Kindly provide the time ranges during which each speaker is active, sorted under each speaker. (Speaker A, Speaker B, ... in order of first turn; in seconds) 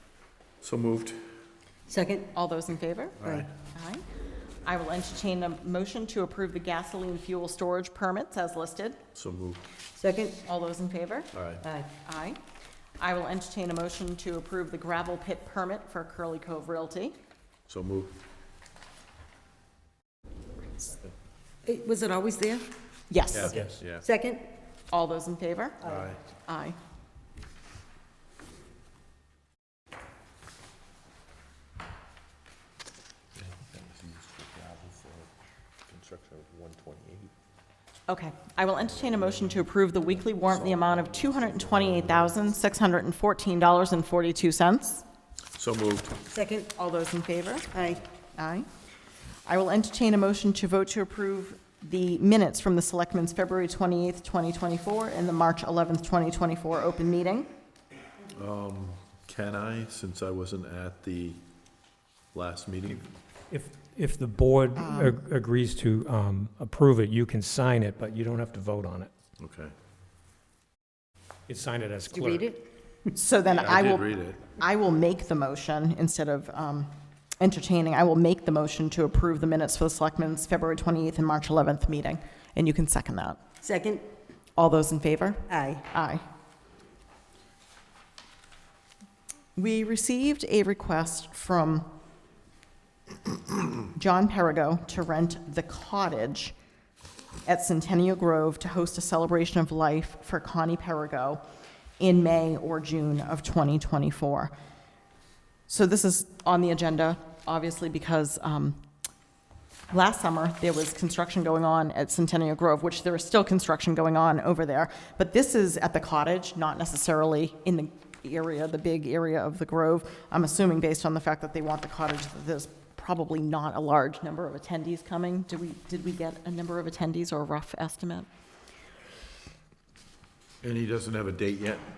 Speaker A: 0.6-1.2, 3.2-3.5, 9.2-9.7, 11.3-11.6, 17.7-18.2, 23.3-24.1, 25.8-26.2, 33.4-35.3, 35.9-37.3, 39.0-39.6, 40.4-42.3, 45.5-46.2, 58.3-61.4, 62.3-63.1, 69.4-69.7, 73.5-74.5, 130.6-131.9
Speaker B: 1.9-2.3, 9.9-10.4, 11.6-11.9, 21.6-22.7, 24.0-24.5, 46.3-46.7, 47.7-48.0, 72.1-72.6, 83.6-84.1, 85.5-85.8
Speaker C: 2.3-4.0, 4.7-9.0, 10.4-11.3, 12.0-12.4, 13.0-17.2, 23.1-23.6, 24.9-25.9, 26.4-26.8, 38.1-45.0, 46.7-47.7, 48.4-48.7, 49.5-57.5, 64.8-65.2, 73.2-83.5, 84.6-86.2, 89.6-91.9, 93.9-96.5, 97.5-101.4, 102.0-104.5, 105.7-108.8, 109.9-128.3
Speaker D: 23.5-23.8, 63.5-69.1, 71.5-72.5